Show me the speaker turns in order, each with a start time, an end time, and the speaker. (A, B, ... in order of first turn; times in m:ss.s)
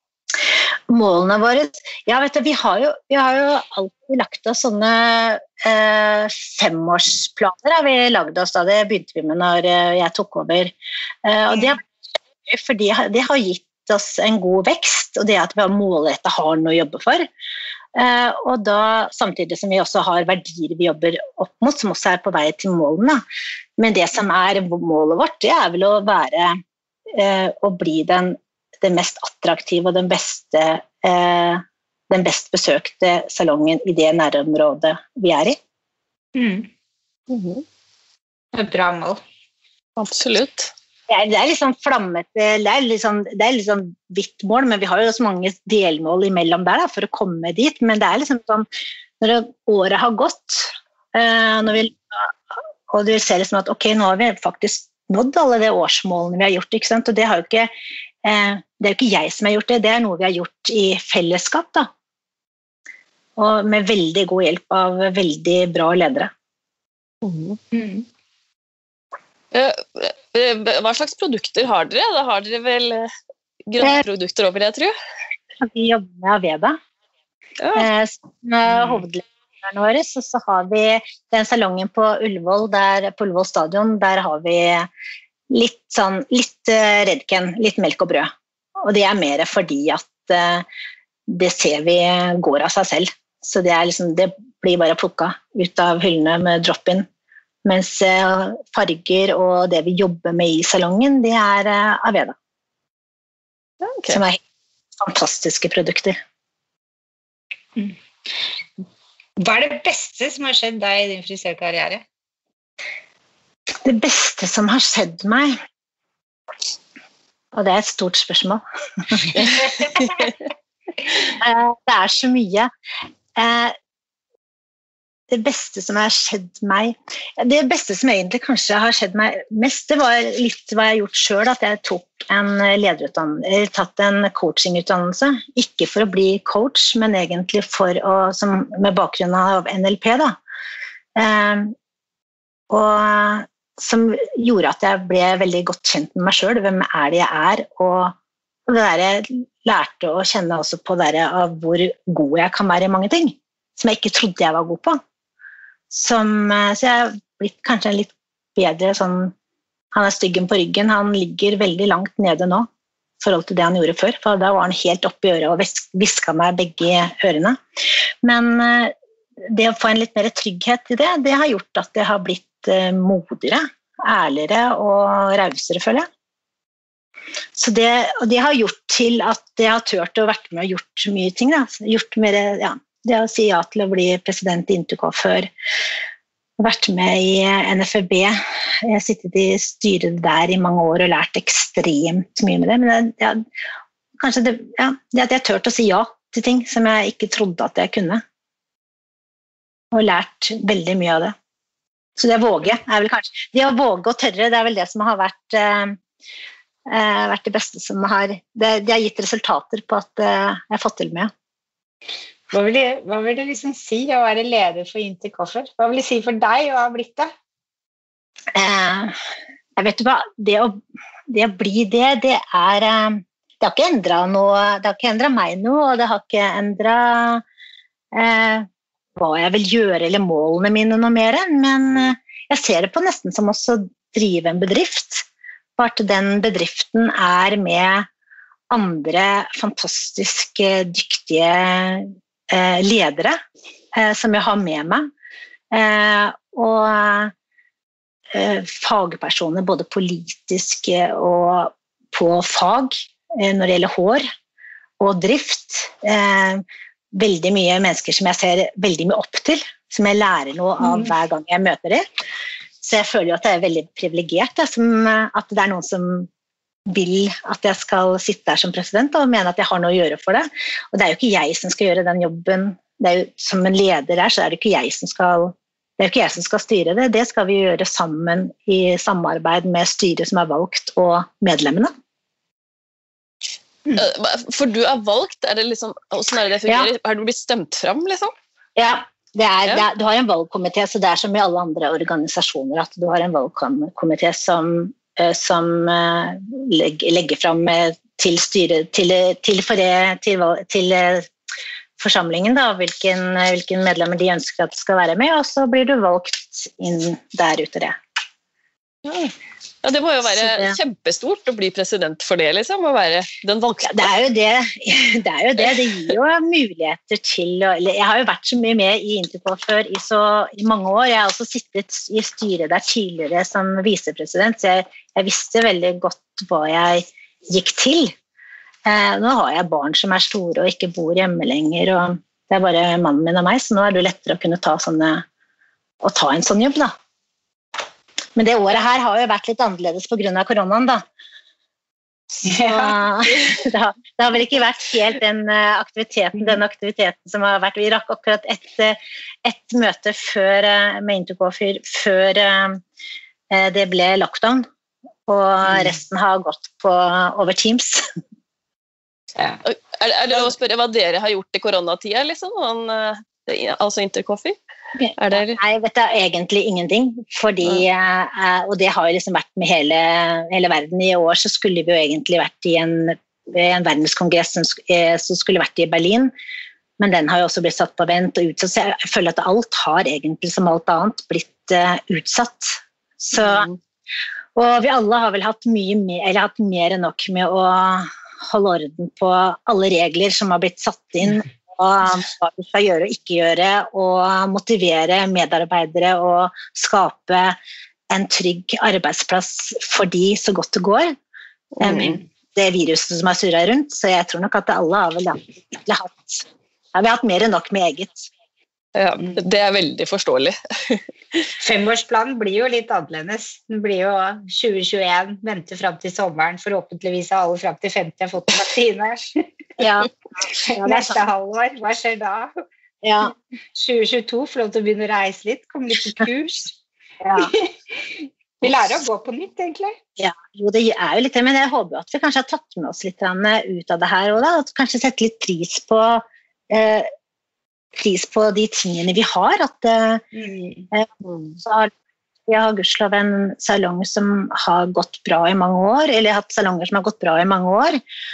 0:00.9-0:11.8 A
0:12.4-0:17.3 A
0:17.9-0:23.2 A
0:23.8-0:26.6 A
0:27.1-0:35.6 A
0:36.3-0:36.7 B
0:37.3-0:37.6 C
0:38.5-0:39.2 B
0:40.0-0:40.7 C
0:41.1-0:48.6 A
0:49.2-0:57.7 A
0:58.2-1:01.9 A
1:03.4-1:06.3 A
1:07.2-1:07.6 C
1:07.7-1:08.0 B
1:09.5-1:13.1 C
1:13.7-1:14.9 C
1:15.6-1:16.8 A
1:17.6-1:17.9 C
1:17.7-1:24.9 A
1:25.5-1:30.6 A
1:31.3-1:37.0 A
1:37.6-1:42.3 A
1:43.8-1:44.2 C
1:44.0-1:44.4 A
1:45.0-1:46.2 A
1:49.4-1:52.0 B
1:53.8-1:55.5 A
1:57.5-1:59.6 A
1:59.3-2:00.3 B
2:01.3-2:02.7 A
2:03.4-2:03.8 A
2:05.3-2:20.4 A
2:21.2-2:21.7 A
2:22.7-2:28.1 A
2:28.7-2:35.0 A
2:35.9-2:39.3 A
2:39.9-2:42.7 A
2:43.2-2:47.6 A
2:48.2-2:56.1 A
2:57.5-3:05.5 A
3:06.6-3:13.4 A
3:14.2-3:18.2 A
3:19.9-3:21.3 A
3:22.2-3:26.0 A
3:26.9-3:31.3 A
3:32.5-3:37.3 B
3:38.5-3:39.1 A
3:39.8-3:47.4 A
3:48.1-3:55.2 A
3:55.8-3:58.1 A
3:58.7-4:03.4 A
4:03.9-4:05.1 A
4:05.7-4:07.3 A
4:08.3-4:14.2 A
4:15.0-4:22.0 A
4:20.8-4:21.1 B
4:22.8-4:26.3 A
4:26.9-4:41.9 A
4:43.9-4:48.3 C
4:48.8-5:01.3 A
5:02.0-5:07.9 A
5:09.8-5:14.1 C
5:10.3-5:10.8 A
5:13.8-5:28.1 A
5:28.8-5:35.2 A
5:36.0-5:36.9 A
5:38.4-5:41.0 A
5:42.4-5:52.8 A
5:42.4-5:43.0 B
5:53.5-5:54.6 A
5:55.3-5:58.0 A
5:59.6-6:04.6 C
6:05.0-6:16.3 A
6:05.2-6:05.6 C
6:17.0-6:23.7 A
6:24.5-6:37.6 A
6:38.1-6:41.1 A
6:41.8-6:42.2 C
6:41.8-6:48.3 A
6:48.9-6:51.4 C
6:51.6-6:59.5 B
6:59.8-7:00.1 A
7:00.5-7:02.5 B
7:00.7-7:01.2 A
7:03.0-7:03.3 A
7:03.7-7:06.8 B
7:07.2-7:07.5 A
7:07.3-7:08.0 B
7:08.6-7:10.0 B
7:10.2-7:17.1 A
7:18.0-7:20.2 A
7:20.3-7:20.9 B
7:21.6-7:21.9 A
7:22.5-7:28.0 A